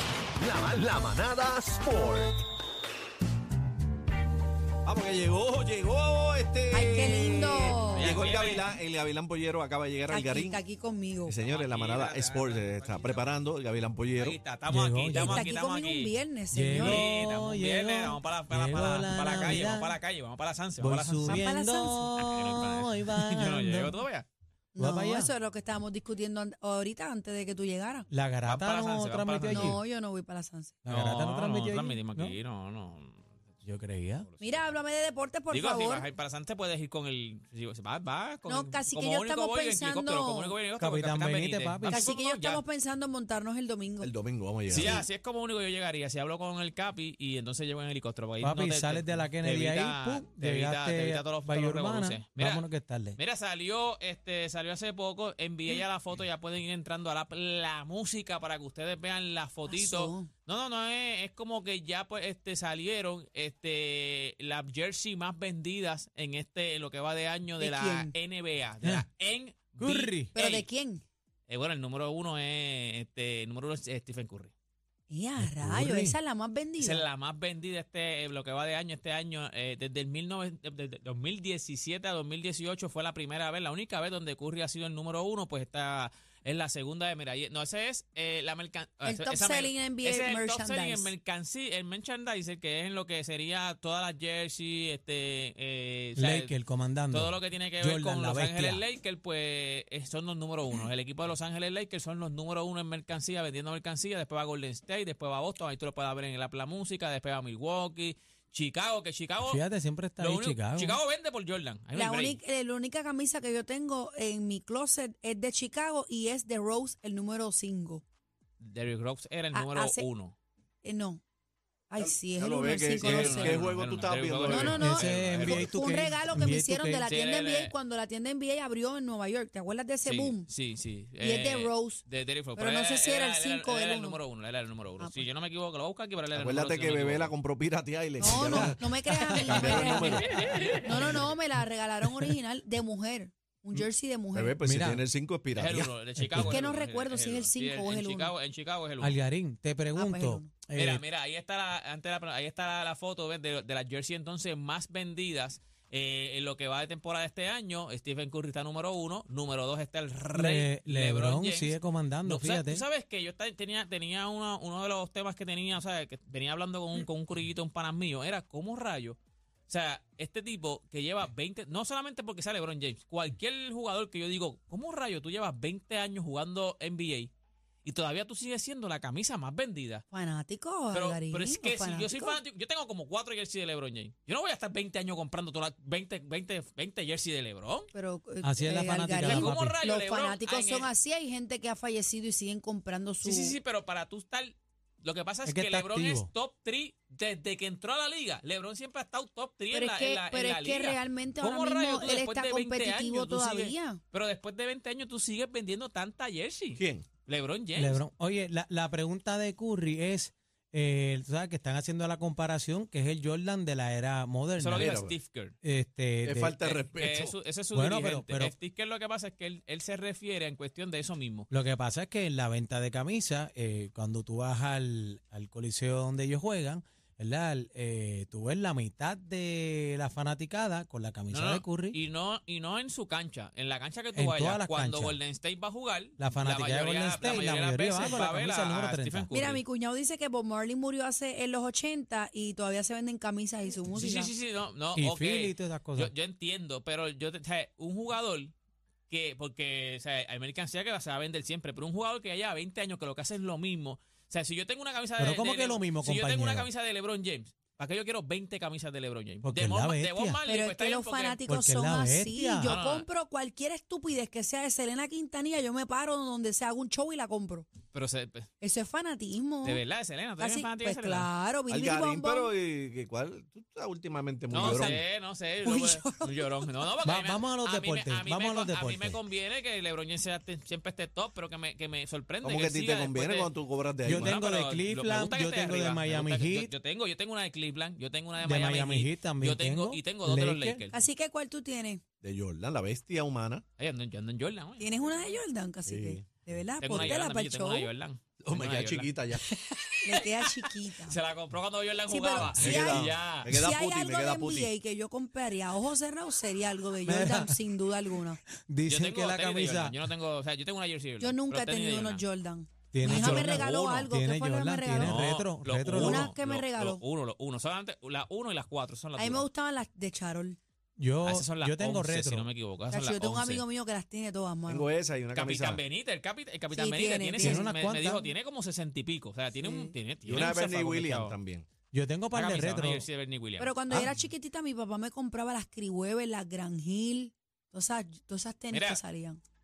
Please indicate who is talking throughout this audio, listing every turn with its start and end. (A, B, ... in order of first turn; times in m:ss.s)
0:00.4-0:02.3 A
0:04.8-0:10.6 B
0:06.7-0:08.2 C
0:07.9-0:08.7 D
0:10.1-0:11.4 C
0:11.3-0:14.4 B
0:11.4-0:13.4 D
0:14.2-0:16.1 D
0:14.7-0:15.5 E
0:15.1-0:17.0 C
0:16.5-0:20.0 E
0:16.7-0:21.4 D
0:20.8-0:24.0 E
0:21.2-0:22.2 C
0:22.2-0:24.2 D
0:24.7-0:28.1 C
0:24.8-0:25.3 E
0:28.1-0:29.8 E
0:28.4-0:29.8 D
0:29.5-0:30.7 C
0:30.8-0:32.4 E
0:30.9-0:33.2 D
0:33.6-0:34.3 E
0:34.3-0:34.7 D
0:34.4-0:36.1 C
0:35.5-0:42.6 D
0:38.5-0:40.5 C
0:40.8-0:42.0 E
0:41.8-0:44.1 C
0:44.0-0:45.0 B
0:44.7-1:10.7 D
0:48.4-0:53.2 E
0:59.7-1:00.3 C
1:07.6-1:08.1 C
1:09.8-1:10.3 E
1:10.3-1:11.0 C
1:11.5-1:14.5 D
1:15.1-1:17.1 C
1:15.4-1:16.2 E
1:16.8-1:36.6 D
1:29.0-1:31.1 C
1:36.2-1:38.8 E
1:37.1-1:49.6 D
1:49.4-1:51.0 E
1:50.2-1:52.4 D
1:51.9-1:58.0 C
1:58.6-2:00.4 D
1:59.5-2:00.1 C
2:00.8-2:01.2 C
2:01.9-2:03.7 C
2:02.0-2:04.9 B
2:03.0-2:06.0 D
2:04.5-2:10.5 C
2:04.8-2:07.1 E
2:07.0-2:07.7 D
2:10.0-2:17.3 D
2:11.2-2:12.0 C
2:12.6-2:14.2 C
2:15.0-2:15.2 C
2:16.3-2:20.3 B
2:18.2-2:20.3 C
2:18.3-2:21.3 E
2:19.5-2:20.8 D
2:20.8-2:24.6 C
2:24.3-2:25.9 B
2:24.6-2:25.0 E
2:25.5-2:29.2 D
2:26.2-2:26.6 E
2:26.4-2:28.3 C
2:29.0-2:31.0 E
2:30.0-2:30.5 C
2:30.8-2:57.3 D
2:40.3-2:42.8 E
2:57.8-3:00.0 D
3:00.1-3:02.4 C
3:00.9-3:07.9 D
3:07.9-3:13.6 C
3:08.4-3:09.8 E
3:09.2-3:10.9 D
3:13.2-3:28.0 D
3:15.4-3:16.3 E
3:19.7-3:24.0 C
3:26.8-3:27.1 B
3:27.8-3:35.0 E
3:34.6-3:35.6 D
3:34.7-3:35.1 B
3:35.6-3:36.6 E
3:36.2-3:37.3 B
3:36.6-3:41.5 D
3:37.7-3:38.5 E
3:41.5-3:52.0 E
3:51.3-3:59.6 D
3:54.1-3:55.2 E
3:56.2-3:59.3 E
3:59.3-4:04.3 C
4:03.9-4:08.5 D
4:05.0-4:06.1 E
4:09.1-4:21.4 D
4:15.2-4:16.7 E
4:19.4-4:20.4 E
4:20.4-4:27.7 C
4:21.5-4:22.8 E
4:22.6-4:23.1 D
4:27.9-4:28.5 D
4:28.6-4:29.8 C
4:29.6-4:31.3 D
4:30.4-4:32.5 C
4:31.7-4:35.0 B
4:34.5-4:43.5 D
4:35.6-4:36.6 C
4:37.0-4:39.2 E
4:42.4-4:44.4 B
4:44.0-4:46.7 E
4:44.1-4:51.0 D
4:48.4-4:50.8 E
4:50.9-4:52.0 C
4:52.2-4:53.6 B
4:53.8-4:55.0 D
4:54.8-4:57.9 C
4:55.9-4:56.2 B
4:56.8-4:59.1 D
4:58.4-4:59.4 B
4:59.9-5:03.6 D
5:00.0-5:01.2 C
5:02.1-5:08.4 C
5:02.5-5:04.7 B
5:07.1-5:07.6 E
5:08.6-5:10.0 E
5:08.9-5:12.2 D
5:11.2-5:15.2 C
5:12.9-5:16.3 E
5:13.0-5:14.0 D
5:15.0-5:19.4 D
5:15.9-5:17.0 C
5:19.2-5:20.6 C
5:21.0-5:22.5 E
5:21.2-5:23.6 D
5:22.9-5:24.9 C
5:24.7-5:25.8 B
5:25.3-5:31.4 D
5:26.7-5:27.7 C
5:27.4-5:28.3 E
5:29.6-5:29.9 C
5:30.2-5:31.7 B
5:31.9-5:33.0 E
5:32.3-5:33.8 D
5:33.6-5:39.4 C
5:38.7-5:39.0 D